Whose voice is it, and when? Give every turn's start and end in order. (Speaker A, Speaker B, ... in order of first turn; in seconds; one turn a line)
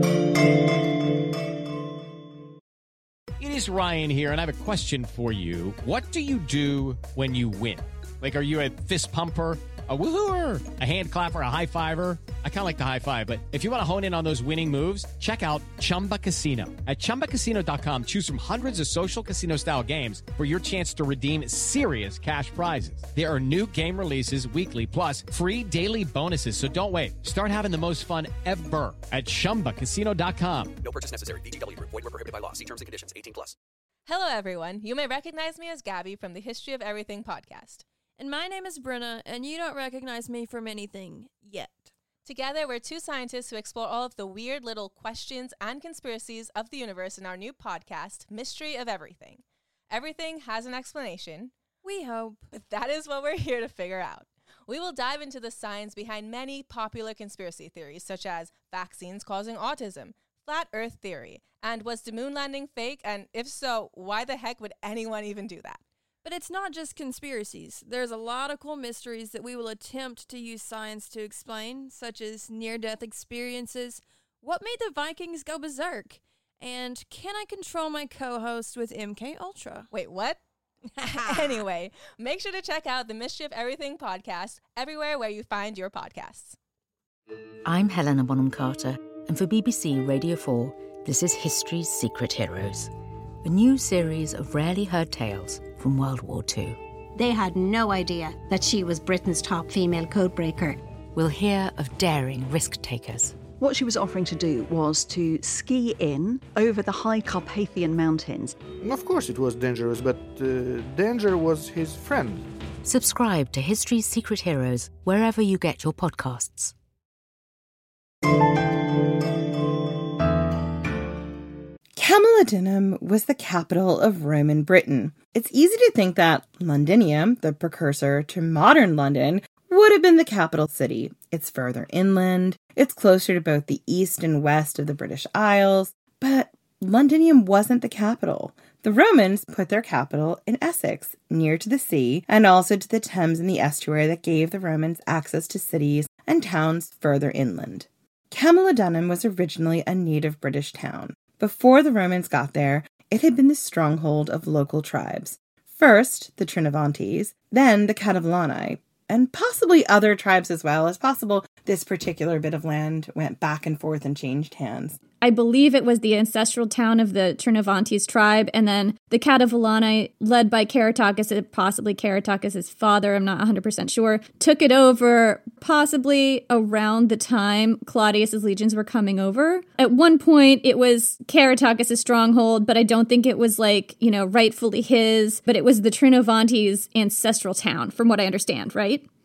Speaker A: 3.4-30.7
Speaker B: 30.8-33.5
Speaker C: 34.1-37.9
Speaker D: 38.2-41.9
Speaker C: 42.2-51.5
Speaker D: 51.8-52.5
Speaker C: 52.5-65.8
Speaker D: 66.2-79.9
Speaker C: 79.9-80.4
Speaker C: 81.0-86.6
Speaker D: 81.1-81.6
Speaker E: 87.7-92.9
Speaker E: 93.4-96.8
Speaker F: 97.2-100.8
Speaker E: 101.2-103.4
Speaker G: 103.6-108.6
Speaker H: 108.8-112.5
Speaker E: 112.8-116.7
Speaker I: 122.0-165.0
Speaker J: 165.2-189.0